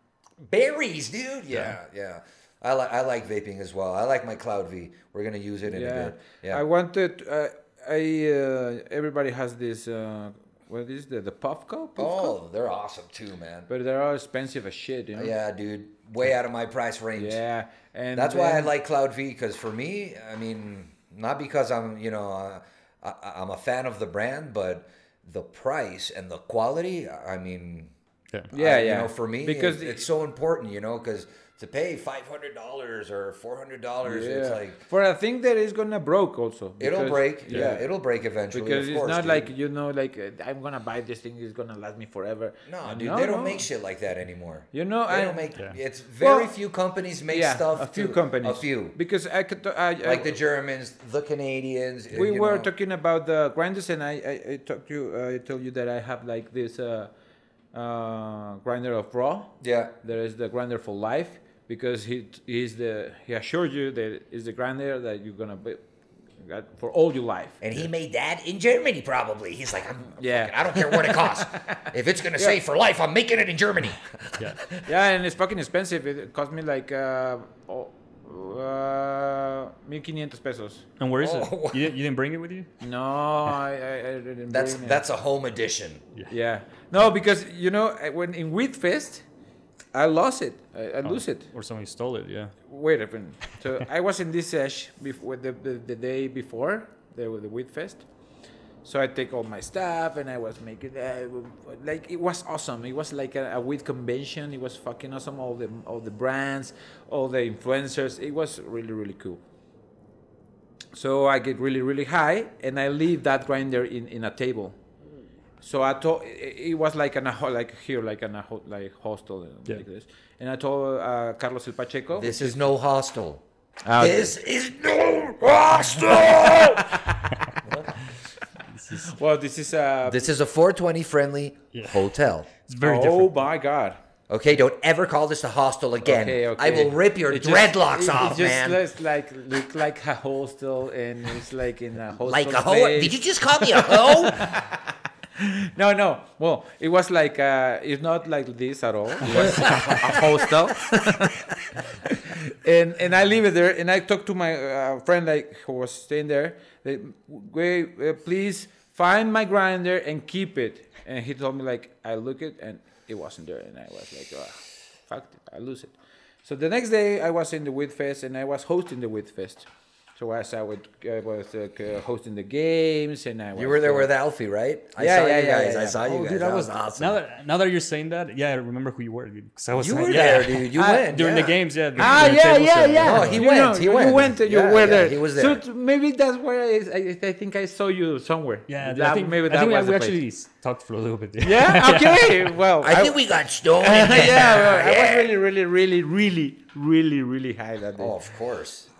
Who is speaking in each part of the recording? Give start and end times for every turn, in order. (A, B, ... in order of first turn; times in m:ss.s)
0:00.4-0:06.6 A
0:05.7-0:12.4 B
0:12.0-0:13.7 A
0:13.7-0:15.3 B
0:15.2-0:17.4 A
0:17.2-0:18.7 B
0:18.2-0:27.9 A
0:28.5-0:30.0 B
0:28.5-0:34.8 A
0:34.0-0:37.9 B
0:36.8-0:39.5 A
0:38.5-0:43.7 B
0:42.7-0:49.0 A
0:44.7-0:45.5 B
0:46.2-0:46.5 B
0:47.3-0:50.4 B
0:50.0-0:52.7 A
0:52.1-0:57.1 B
0:57.7-1:05.8 B
0:59.6-1:00.0 A
1:06.4-1:07.6 B
1:07.6-1:14.8 A
1:10.2-1:12.6 B
1:14.9-1:20.9 B
1:21.0-1:22.7 C
1:21.2-1:21.9 A
1:22.8-1:25.0 B
1:24.5-1:26.0 A
1:26.3-1:29.2 B
1:29.9-1:31.5 B
1:31.0-1:32.6 C
1:32.6-1:38.1 B
1:38.8-1:49.4 B
1:50.9-1:54.8 B
1:55.6-2:02.7 B
2:02.1-2:03.4 A
2:03.8-2:04.4 B
2:04.0-2:07.0 A
2:05.8-2:07.3 B
2:07.6-2:08.0 A
2:08.8-2:09.1 C
2:08.9-2:10.3 B
2:10.1-2:12.5 A
2:11.7-2:13.3 C
2:12.8-2:14.0 B
2:14.3-2:18.8 A
2:16.0-2:54.1 B
2:22.3-2:24.5 A
2:29.4-2:30.2 A
2:53.6-2:57.2 A
2:55.0-2:56.0 B
2:56.0-3:03.4 C
2:59.8-3:01.6 A
3:00.7-3:01.2 B
3:02.0-3:10.2 B
3:03.0-3:05.6 A
3:08.7-3:12.5 C
3:11.4-3:13.2 B
3:12.8-3:15.3 A
3:13.8-3:18.2 B
3:18.0-3:18.9 A